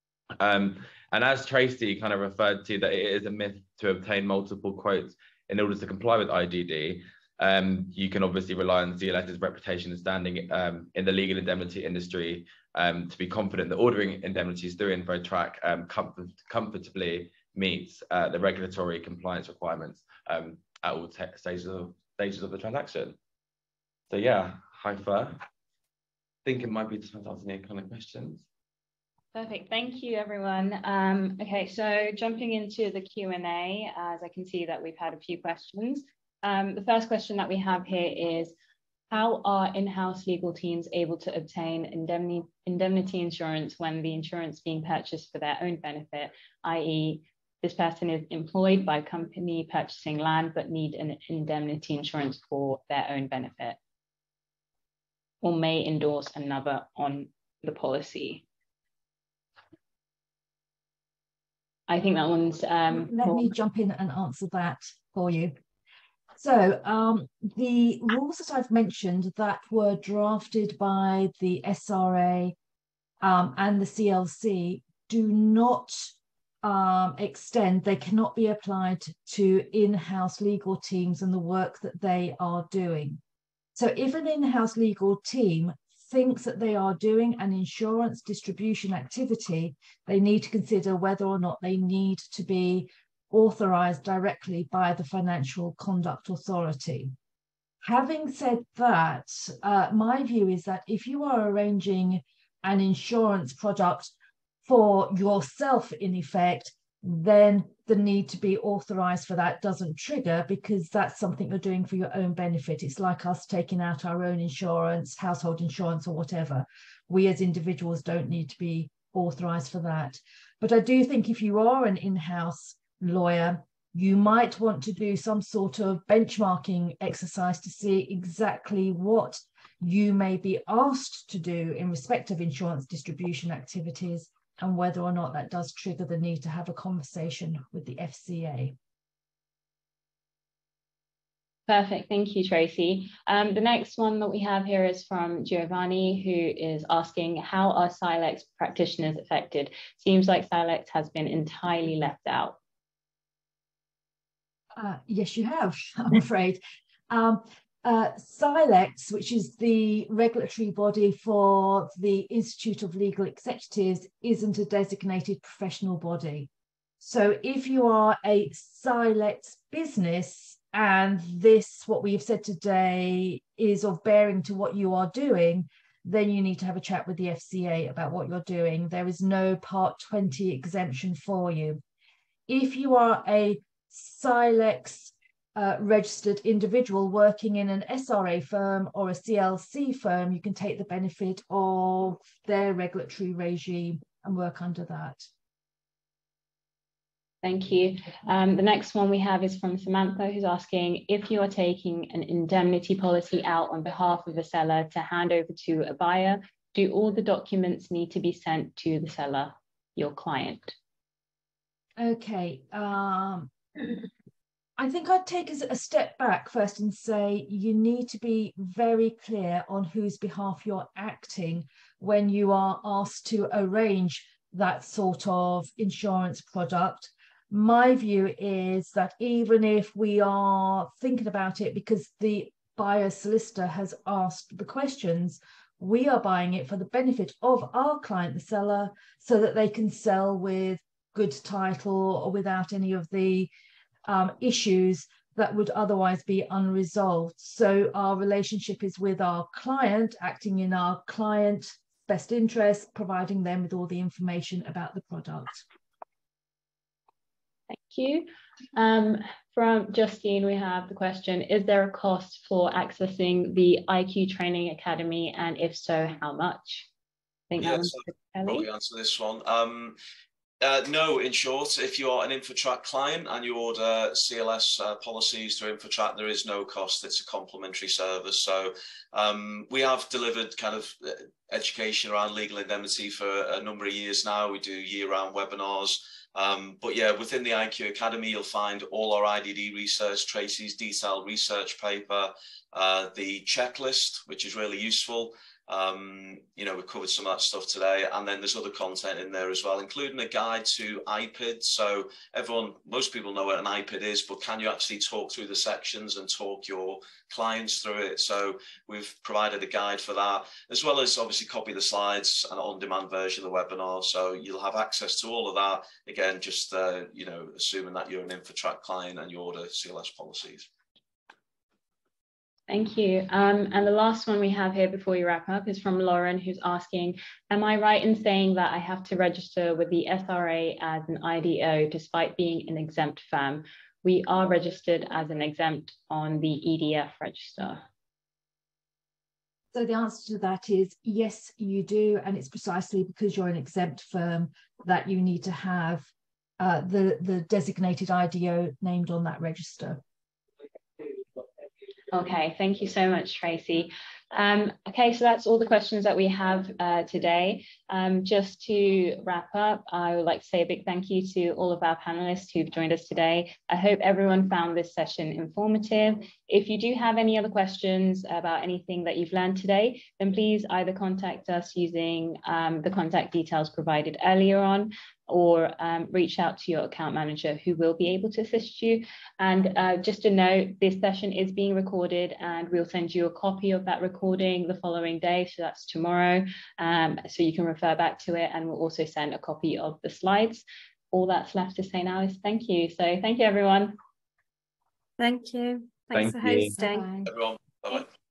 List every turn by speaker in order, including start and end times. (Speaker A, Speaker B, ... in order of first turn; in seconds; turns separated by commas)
Speaker A: 0.4-23.2, Speaker A: 24.1-25.4, Speaker A: 26.4-28.4, Speaker B: 29.3-38.5, Speaker B: 39.1-53.8, Speaker B: 55.4-58.4, Speaker B: 61.9-63.5, Speaker C: 62.9-65.5, Speaker C: 66.4-72.5, Speaker C: 73.2-76.1, Speaker C: 76.6-83.2, Speaker C: 83.8-97.1, Speaker C: 97.8-104.1, Speaker C: 104.7-138.8, Speaker B: 141.7-152.6, Speaker C: 154.8-166.5, Speaker C: 167.0-181.8, Speaker C: 182.5-195.3, Speaker B: 197.4-210.8, Speaker C: 212.0-214.1, Speaker C: 214.8-243.5, Speaker C: 244.1-255.6, Speaker B: 257.7-266.9, Speaker B: 267.5-268.7, Speaker D: 267.6-270.0, Speaker D: 270.6-320.7, Speaker B: 322.7-337.8, Speaker C: 339.7-350.0, Speaker B: 352.1-394.0, Speaker E: 395.2-397.1, Speaker A: 396.1-396.8, Speaker C: 396.8-397.3, Speaker D: 397.3-398.1